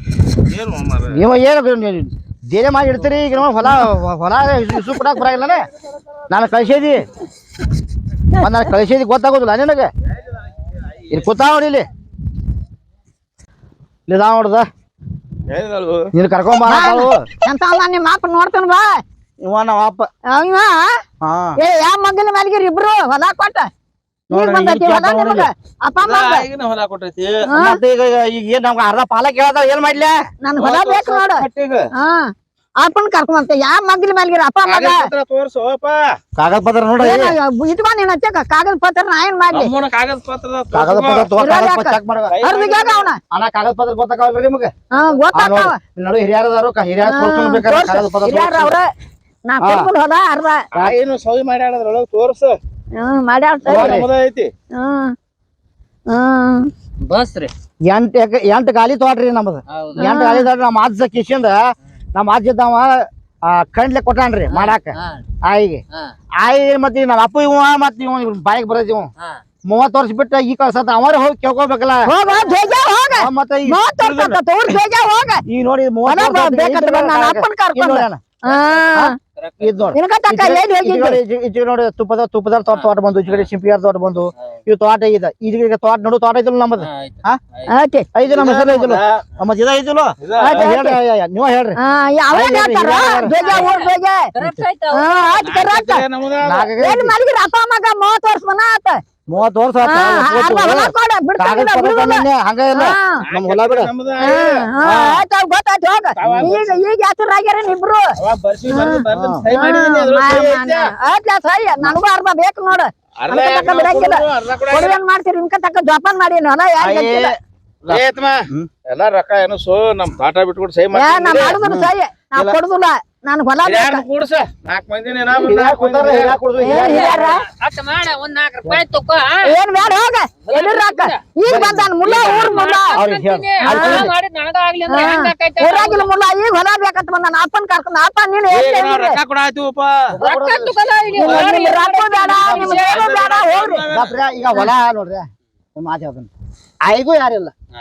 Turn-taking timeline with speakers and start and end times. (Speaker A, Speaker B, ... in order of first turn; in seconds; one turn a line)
Speaker A: 0.5-1.2
Speaker B: 1.1-5.6
Speaker B: 6.3-7.0
Speaker B: 8.4-9.9
Speaker A: 10.9-11.2
Speaker B: 11.1-11.8
Speaker B: 14.1-14.7
Speaker A: 15.5-16.1
Speaker B: 16.1-17.3
Speaker C: 16.6-19.0
Speaker B: 19.4-20.1
Speaker C: 20.3-20.9
Speaker B: 21.2-21.6
Speaker C: 21.6-23.7
Speaker B: 24.3-25.5
Speaker C: 24.3-26.4
Speaker A: 26.0-27.5
Speaker C: 27.5-27.8
Speaker B: 27.5-30.1
Speaker C: 30.4-35.1
Speaker A: 30.6-31.9
Speaker A: 34.7-36.2
Speaker B: 36.4-37.3
Speaker C: 37.0-39.7
Speaker A: 39.5-41.3
Speaker B: 40.7-42.4
Speaker C: 41.4-43.2
Speaker A: 42.3-43.1
Speaker B: 43.3-44.7
Speaker C: 44.9-45.8
Speaker B: 45.3-48.7
Speaker C: 47.0-48.9
Speaker C: 49.5-50.6
Speaker B: 49.6-49.9
Speaker A: 50.7-52.6
Speaker C: 53.0-54.0
Speaker B: 53.6-54.1
Speaker A: 53.7-54.5
Speaker C: 54.8-55.1
Speaker C: 56.1-56.7
Speaker D: 57.0-57.5
Speaker B: 57.9-61.6
Speaker D: 59.7-60.1
Speaker C: 60.0-60.5
Speaker B: 62.1-65.8
Speaker D: 64.5-65.2
Speaker B: 66.4-69.1
Speaker B: 69.7-72.1
Speaker C: 72.0-75.4
Speaker D: 72.3-72.6
Speaker B: 73.2-74.7
Speaker B: 75.5-78.2
Speaker C: 76.1-79.1
Speaker D: 78.5-79.8
Speaker B: 79.0-87.4
Speaker C: 79.9-81.2
Speaker D: 86.8-87.7
Speaker C: 87.7-88.0
Speaker B: 88.1-91.8
Speaker A: 88.2-89.2
Speaker A: 90.2-90.6
Speaker C: 90.4-91.0
Speaker C: 91.8-94.3
Speaker B: 92.3-93.6
Speaker D: 93.3-95.4
Speaker C: 94.9-96.0
Speaker A: 95.4-96.7
Speaker B: 96.4-97.1
Speaker C: 96.8-99.0
Speaker B: 99.3-103.9
Speaker C: 99.8-103.2
Speaker A: 103.2-104.6
Speaker C: 104.2-108.1
Speaker B: 104.8-105.2
Speaker A: 106.2-106.8
Speaker B: 106.2-106.5
Speaker A: 108.2-110.9
Speaker C: 108.7-117.3
Speaker B: 109.1-109.4
Speaker A: 113.2-115.0
Speaker B: 116.8-118.7
Speaker A: 117.9-121.6
Speaker C: 120.9-124.0
Speaker A: 123.6-126.4
Speaker B: 125.3-127.3
Speaker C: 126.6-127.4
Speaker D: 126.7-129.5
Speaker C: 129.4-133.0
Speaker D: 130.4-131.2
Speaker B: 131.4-132.0
Speaker D: 132.0-136.1
Speaker B: 132.9-134.1
Speaker C: 133.6-134.1
Speaker C: 134.9-139.2
Speaker A: 138.5-140.1
Speaker B: 140.1-140.8
Speaker C: 140.2-143.8
Speaker D: 140.7-143.3
Speaker A: 142.7-144.2
Speaker B: 143.9-146.3
Speaker B: 146.8-147.5